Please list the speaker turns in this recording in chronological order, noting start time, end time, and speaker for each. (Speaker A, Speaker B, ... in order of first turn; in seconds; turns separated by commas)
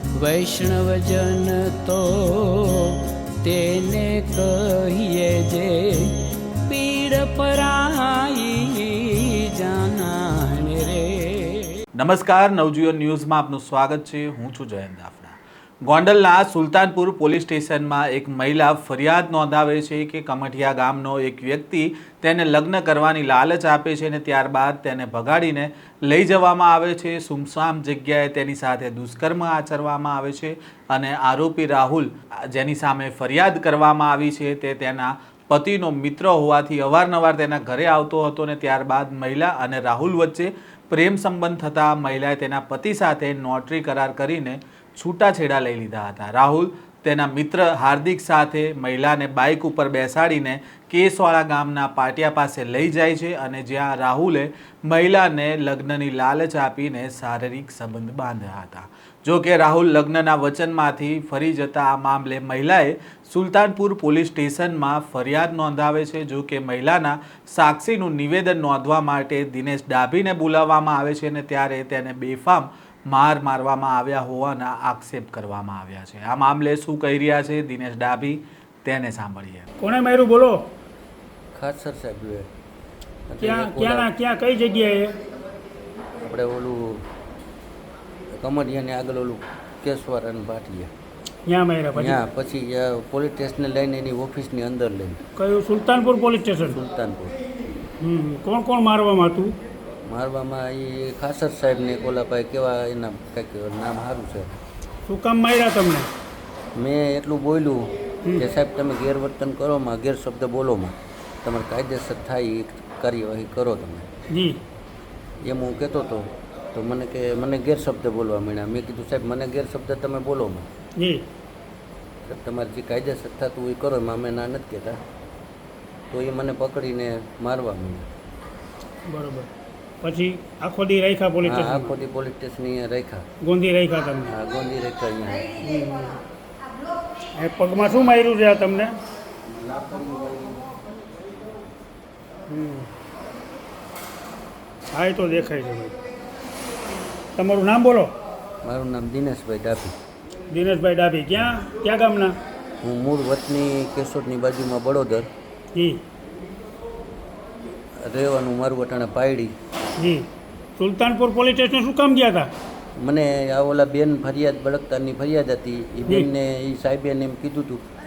Speaker A: 0.1-11.8, Speaker B: 12.0-79.7, Speaker C: 79.8-80.6, Speaker D: 81.5-82.5, Speaker D: 83.3-84.1, Speaker C: 83.4-85.2, Speaker D: 86.2-87.0, Speaker D: 88.3-90.9, Speaker C: 91.5-92.2, Speaker D: 92.0-95.2, Speaker C: 95.4-96.8, Speaker D: 96.6-97.3, Speaker C: 98.0-99.5, Speaker D: 100.1-104.6, Speaker C: 105.1-106.1, Speaker D: 106.8-114.1, Speaker C: 114.3-114.6, Speaker D: 115.4-120.7, Speaker C: 121.0-121.2, Speaker D: 122.2-125.0, Speaker D: 126.1-128.1, Speaker C: 129.1-129.5, Speaker C: 130.0-131.9, Speaker D: 131.4-133.2, Speaker C: 133.4-134.3, Speaker D: 134.3-135.6, Speaker C: 135.6-136.2, Speaker C: 137.4-139.0, Speaker D: 139.5-140.7, Speaker C: 142.5-142.9, Speaker C: 144.9-145.9, Speaker C: 147.3-148.1, Speaker D: 148.6-149.9, Speaker C: 150.5-152.3, Speaker D: 152.8-155.3, Speaker C: 155.8-156.0, Speaker D: 158.0-159.6, Speaker C: 160.0-160.3, Speaker C: 160.8-162.5, Speaker D: 163.0-167.8